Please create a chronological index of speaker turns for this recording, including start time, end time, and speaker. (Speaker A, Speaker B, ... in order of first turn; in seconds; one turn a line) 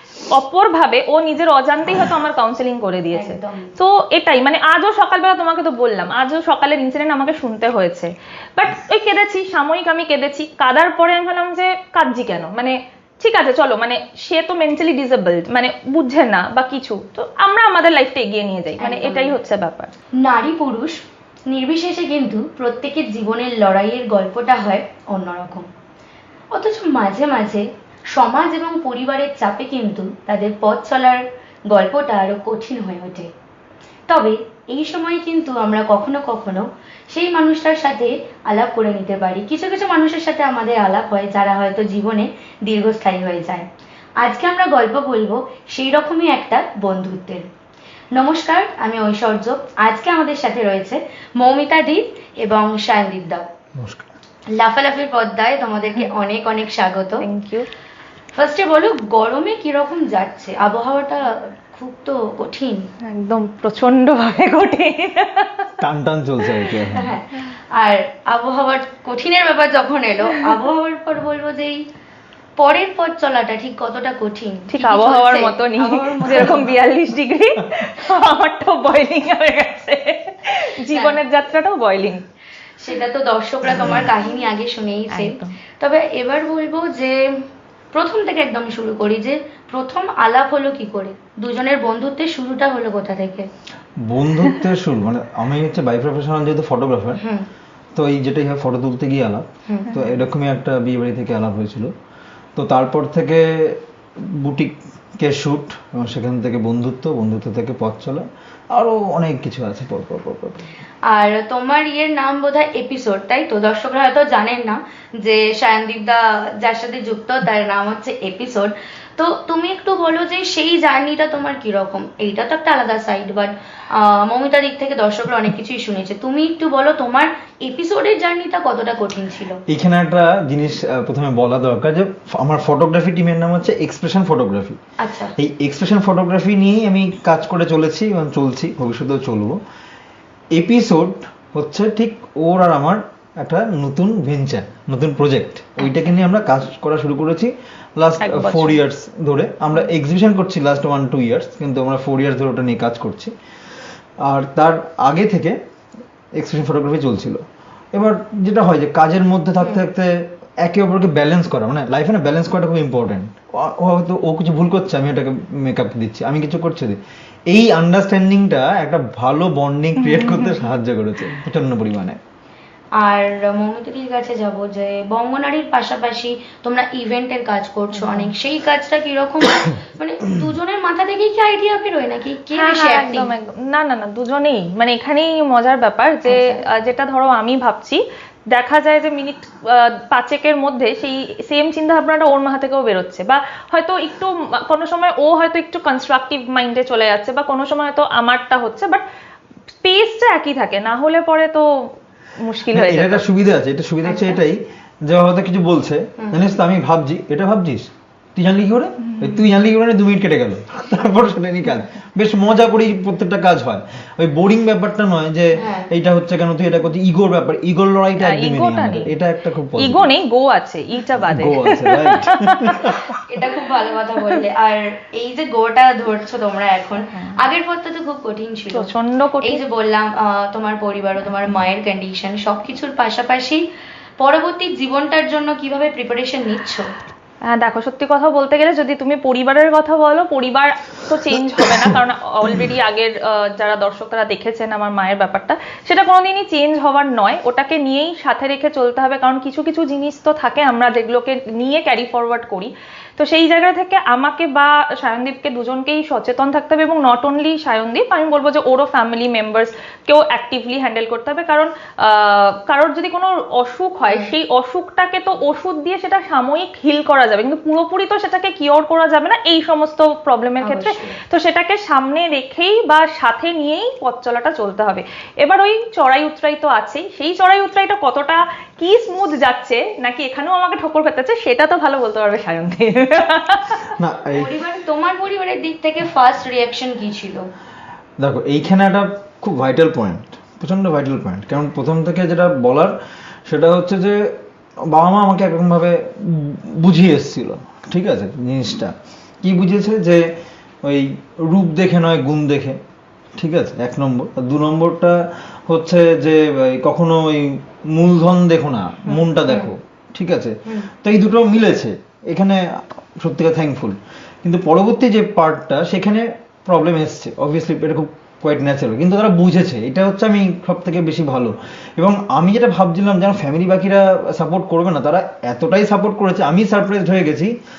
Speaker A: 0.3-19.9
Speaker B: 3.1-3.8
Speaker B: 18.8-19.4
Speaker B: 20.2-21.0
Speaker B: 21.5-25.7
Speaker B: 26.5-33.3
Speaker B: 34.1-43.7
Speaker B: 44.2-47.5
Speaker B: 48.1-53.4
Speaker C: 53.8-54.1
Speaker B: 54.5-57.2
Speaker A: 57.2-57.7
Speaker B: 58.4-62.8
Speaker A: 63.0-65.8
Speaker C: 65.8-67.1
Speaker A: 66.5-66.8
Speaker B: 67.0-71.8
Speaker B: 72.6-76.7
Speaker A: 74.7-82.2
Speaker B: 80.9-81.2
Speaker B: 82.8-87.2
Speaker A: 85.1-85.6
Speaker B: 87.9-93.5
Speaker C: 94.0-97.2
Speaker B: 97.2-97.5
Speaker C: 98.0-101.9
Speaker B: 99.7-100.0
Speaker C: 102.6-110.7
Speaker B: 111.1-129.6
Speaker C: 129.7-134.8
Speaker B: 135.0-135.3
Speaker C: 135.4-139.6
Speaker C: 140.5-153.3
Speaker A: 148.2-148.8
Speaker C: 154.2-155.6
Speaker C: 156.4-157.4
Speaker C: 157.9-172.2
Speaker A: 170.0-170.8
Speaker B: 173.0-183.3
Speaker A: 177.9-178.3
Speaker A: 182.5-199.0
Speaker B: 186.2-186.6
Speaker A: 199.8-203.2
Speaker C: 202.7-220.1
Speaker B: 204.1-204.4
Speaker B: 206.2-206.5
Speaker A: 209.1-209.4
Speaker B: 215.6-215.9
Speaker A: 218.2-219.1
Speaker A: 219.8-223.2
Speaker C: 221.2-223.1
Speaker B: 223.3-233.6
Speaker A: 227.1-227.4
Speaker A: 228.7-229.6
Speaker B: 234.2-236.9
Speaker A: 237.6-283.9
Speaker C: 241.6-242.0
Speaker B: 264.1-264.3
Speaker B: 270.6-271.2
Speaker C: 283.9-284.5
Speaker B: 284.4-287.5
Speaker C: 288.2-292.9
Speaker C: 293.5-294.4
Speaker C: 294.9-300.2
Speaker C: 300.8-302.8
Speaker C: 303.4-327.5